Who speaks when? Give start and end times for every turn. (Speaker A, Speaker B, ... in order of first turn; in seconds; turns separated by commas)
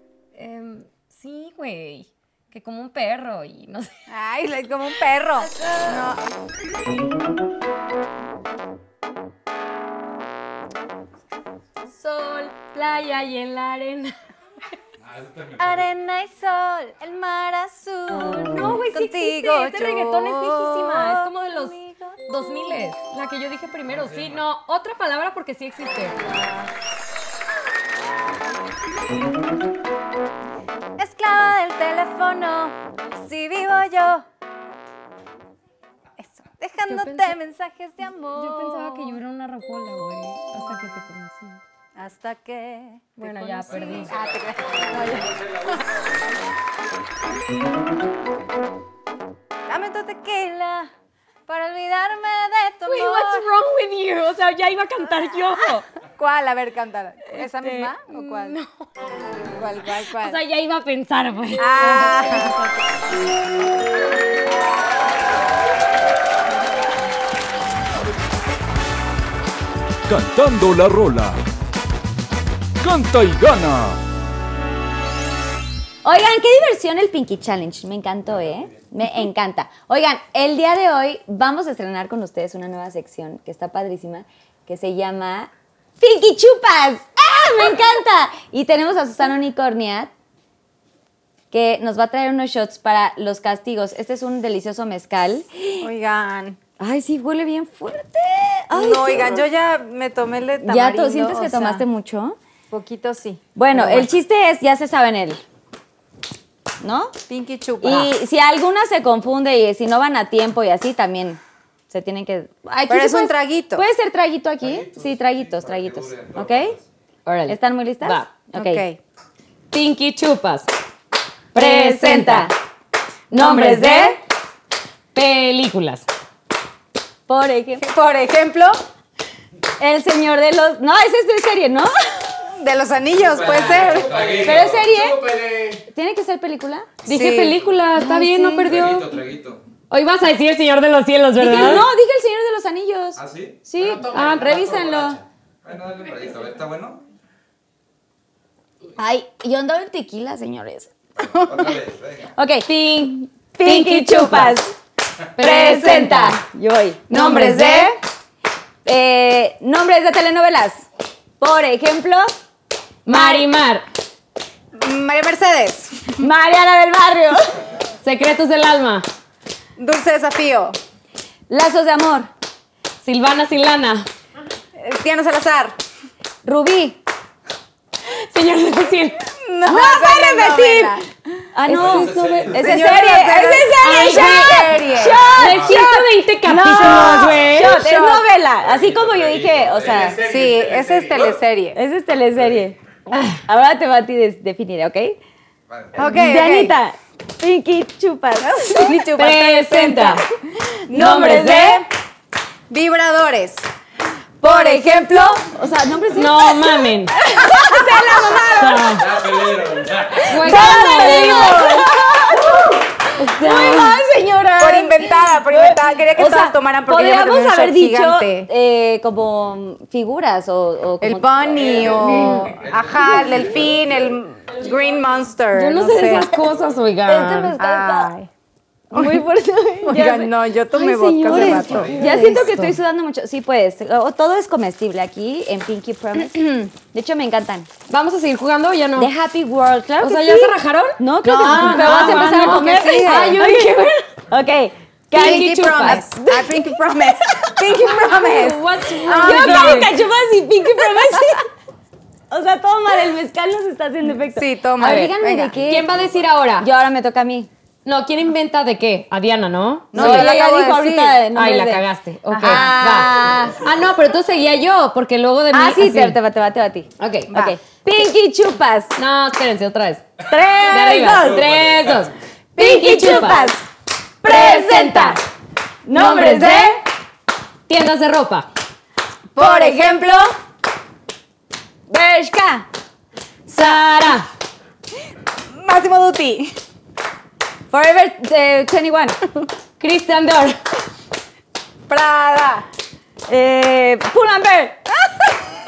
Speaker A: 0.3-3.9, Speaker B: 4.1-6.2, Speaker A: 5.6-5.9, Speaker A: 11.9-14.2, Speaker C: 15.1-15.6, Speaker B: 15.6-22.2, Speaker A: 18.2-26.4, Speaker B: 26.2-26.6, Speaker B: 31.0-34.2, Speaker B: 36.2-39.2, Speaker A: 36.9-37.4, Speaker A: 38.4-41.6, Speaker B: 42.0-46.0, Speaker A: 43.2-44.2, Speaker B: 49.7-50.9, Speaker B: 51.5-53.5, Speaker A: 52.9-55.9, Speaker B: 56.2-58.6, Speaker A: 57.3-58.9, Speaker B: 59.3-60.4, Speaker A: 60.2-62.8, Speaker B: 61.6-62.6, Speaker D: 70.1-71.4, Speaker D: 72.8-74.0, Speaker E: 76.0-90.1, Speaker E: 91.5-95.8, Speaker B: 95.8-96.6, Speaker E: 96.8-99.4, Speaker B: 98.7-101.8, Speaker E: 100.7-102.4, Speaker B: 102.7-104.1, Speaker E: 103.6-105.4, Speaker E: 106.8-107.2, Speaker B: 107.3-108.1, Speaker E: 107.8-116.8, Speaker B: 112.9-113.8, Speaker C: 114.7-116.8, Speaker A: 117.3-118.3, Speaker E: 117.5-118.8, Speaker B: 118.5-119.0, Speaker A: 119.7-120.7, Speaker A: 121.5-122.5, Speaker E: 121.5-122.5, Speaker E: 123.3-124.2, Speaker B: 123.4-124.2, Speaker A: 125.2-126.0, Speaker E: 127.3-127.9, Speaker B: 127.8-128.8, Speaker E: 129.8-132.3, Speaker B: 132.5-134.4, Speaker C: 133.4-134.8, Speaker E: 134.3-136.9, Speaker A: 137.1-139.2, Speaker B: 137.1-137.6, Speaker E: 137.9-138.7, Speaker C: 138.6-139.6, Speaker A: 139.9-141.9, Speaker E: 141.4-145.2, Speaker C: 143.2-143.6, Speaker A: 144.1-145.0, Speaker C: 145.7-147.0, Speaker E: 149.0-150.9, Speaker C: 151.4-152.3, Speaker E: 152.3-154.7, Speaker A: 152.7-154.6, Speaker A: 155.4-156.4, Speaker E: 155.4-157.9, Speaker B: 157.1-157.9, Speaker A: 157.2-157.6, Speaker E: 158.8-160.9, Speaker E: 161.4-162.3, Speaker A: 163.1-163.8, Speaker B: 163.1-163.4, Speaker B: 164.8-166.3, Speaker E: 166.2-167.6, Speaker A: 168.0-169.1, Speaker B: 169.8-170.8, Speaker E: 171.5-172.3, Speaker A: 173.0-174.1, Speaker B: 174.8-175.8, Speaker E: 176.4-177.0, Speaker A: 178.0-179.2, Speaker B: 179.3-181.0, Speaker E: 179.7-181.0, Speaker E: 181.5-190.2, Speaker A: 181.7-183.0, Speaker C: 181.9-182.5, Speaker B: 182.5-185.8, Speaker A: 183.8-187.8, Speaker B: 186.7-188.2, Speaker C: 188.7-190.2, Speaker B: 190.2-191.8, Speaker E: 191.8-192.8, Speaker A: 193.1-193.4, Speaker E: 193.5-195.2, Speaker B: 195.9-196.8, Speaker E: 196.0-198.9, Speaker B: 198.4-200.2, Speaker A: 199.1-200.2, Speaker E: 200.6-201.7, Speaker B: 200.9-201.8, Speaker A: 200.9-201.8, Speaker B: 202.7-203.7, Speaker E: 204.4-222.5, Speaker B: 204.4-205.4, Speaker A: 206.1-207.1, Speaker B: 207.3-209.5, Speaker A: 208.6-209.2, Speaker C: 209.2-210.2, Speaker A: 210.2-211.8, Speaker B: 210.4-212.8, Speaker A: 213.2-214.0, Speaker B: 213.4-213.9, Speaker B: 214.6-218.5, Speaker B: 221.0-226.3, Speaker C: 221.7-223.2, Speaker A: 225.5-227.6, Speaker E: 227.1-228.1, Speaker B: 227.6-228.3, Speaker E: 228.9-237.7, Speaker B: 228.9-229.2, Speaker B: 229.8-232.1, Speaker A: 231.3-232.8, Speaker A: 237.9-239.1, Speaker E: 239.0-243.7, Speaker A: 240.0-244.1, Speaker B: 241.5-243.6, Speaker E: 244.3-246.7, Speaker A: 245.1-246.1, Speaker B: 245.1-249.9, Speaker A: 248.1-249.9, Speaker E: 249.2-251.5, Speaker E: 252.3-255.9, Speaker B: 254.3-255.6, Speaker A: 255.7-256.7, Speaker E: 256.6-257.5, Speaker A: 257.9-260.4, Speaker B: 259.9-261.2, Speaker E: 259.9-263.6, Speaker A: 261.3-266.2, Speaker B: 262.3-263.2, Speaker E: 265.5-269.0, Speaker A: 267.0-267.3, Speaker B: 267.3-267.6, Speaker A: 268.9-270.1, Speaker E: 270.3-271.6, Speaker A: 270.6-273.6, Speaker E: 272.6-273.6, Speaker E: 274.2-275.2, Speaker A: 274.2-275.2, Speaker E: 275.9-276.8, Speaker A: 275.9-276.8, Speaker A: 277.7-278.5, Speaker E: 279.3-280.3, Speaker B: 279.4-280.3, Speaker E: 281.9-282.7, Speaker A: 283.5-284.3, Speaker B: 283.5-283.8, Speaker B: 285.5-286.5, Speaker E: 287.7-289.2, Speaker A: 289.8-290.6, Speaker B: 291.9-292.7, Speaker E: 293.3-294.8